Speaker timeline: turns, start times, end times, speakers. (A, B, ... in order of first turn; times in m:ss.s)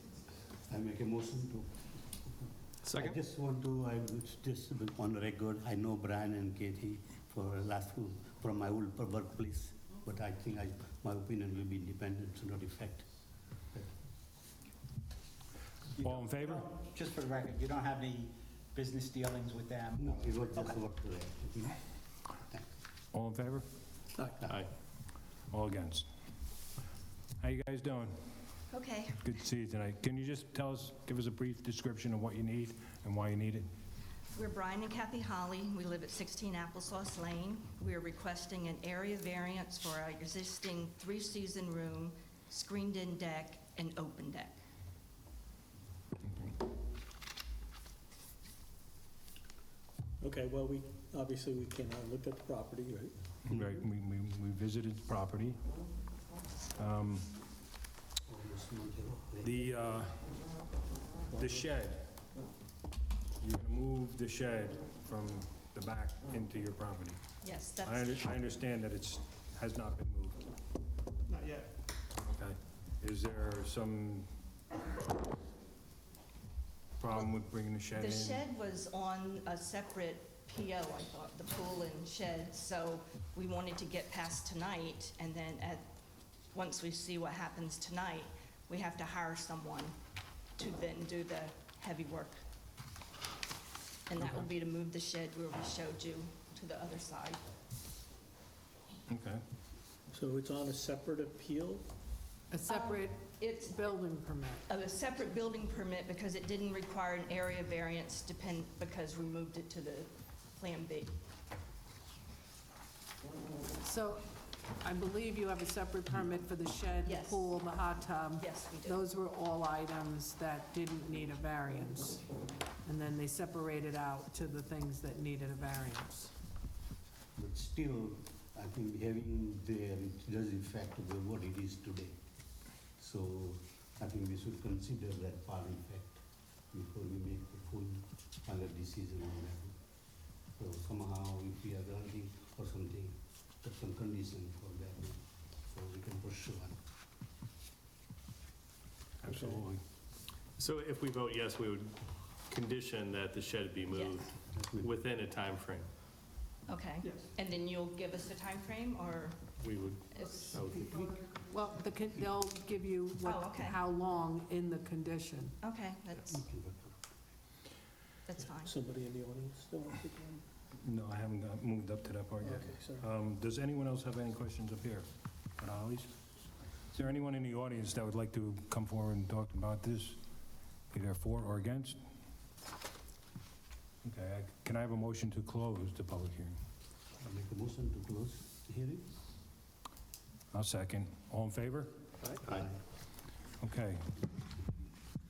0:00.7-0:13.1 A
0:02.9-0:03.2 B
0:16.0-0:20.8 C
0:16.0-0:16.7 D
0:20.0-0:21.8 A
0:23.1-0:23.7 D
0:24.2-0:24.5 E
0:24.4-0:24.7 B
0:25.5-0:26.1 D
0:27.4-0:28.2 D
0:28.7-0:29.2 F
0:29.2-0:33.7 D
0:34.3-0:44.6 F
0:50.2-0:53.8 E
0:53.5-0:55.6 D
0:56.8-0:57.3 D
0:58.3-0:59.7 A
0:59.4-1:00.3 D
1:01.3-1:02.0 D
1:03.4-1:07.2 D
1:07.4-1:08.1 F
1:07.8-1:10.4 D
1:12.2-1:14.3 D
1:17.0-1:18.4 D
1:18.0-1:25.8 F
1:26.5-1:29.9 F
1:30.6-1:32.4 F
1:34.1-1:37.4 F
1:39.1-1:39.4 D
1:40.1-1:41.8 E
1:42.5-1:44.7 G
1:42.7-1:44.0 F
1:44.7-1:51.2 F
1:53.8-2:02.2 G
1:57.0-1:57.6 F
1:58.4-1:59.0 F
2:02.8-2:06.3 G
2:07.4-2:12.2 A
2:13.0-2:19.8 A
2:20.6-2:26.8 A
2:29.2-2:29.8 D
2:29.3-2:29.6 E
2:30.6-2:35.9 B
2:33.9-2:34.2 F
2:34.5-2:34.9 A
2:36.7-2:39.5 F
2:39.6-2:41.4 B
2:40.1-2:40.5 F
2:41.5-2:45.6 G
2:43.2-2:43.8 F
2:45.6-2:46.4 F
2:46.3-2:47.0 A
2:48.3-2:48.7 F
2:48.6-2:50.4 E
2:50.8-2:56.2 D
2:52.4-2:53.1 E
2:56.9-3:00.2 D
3:00.9-3:02.0 D
3:04.0-3:06.6 D
3:07.2-3:09.1 A
3:10.5-3:11.9 D
3:12.4-3:12.8 A
3:13.6-3:14.1 D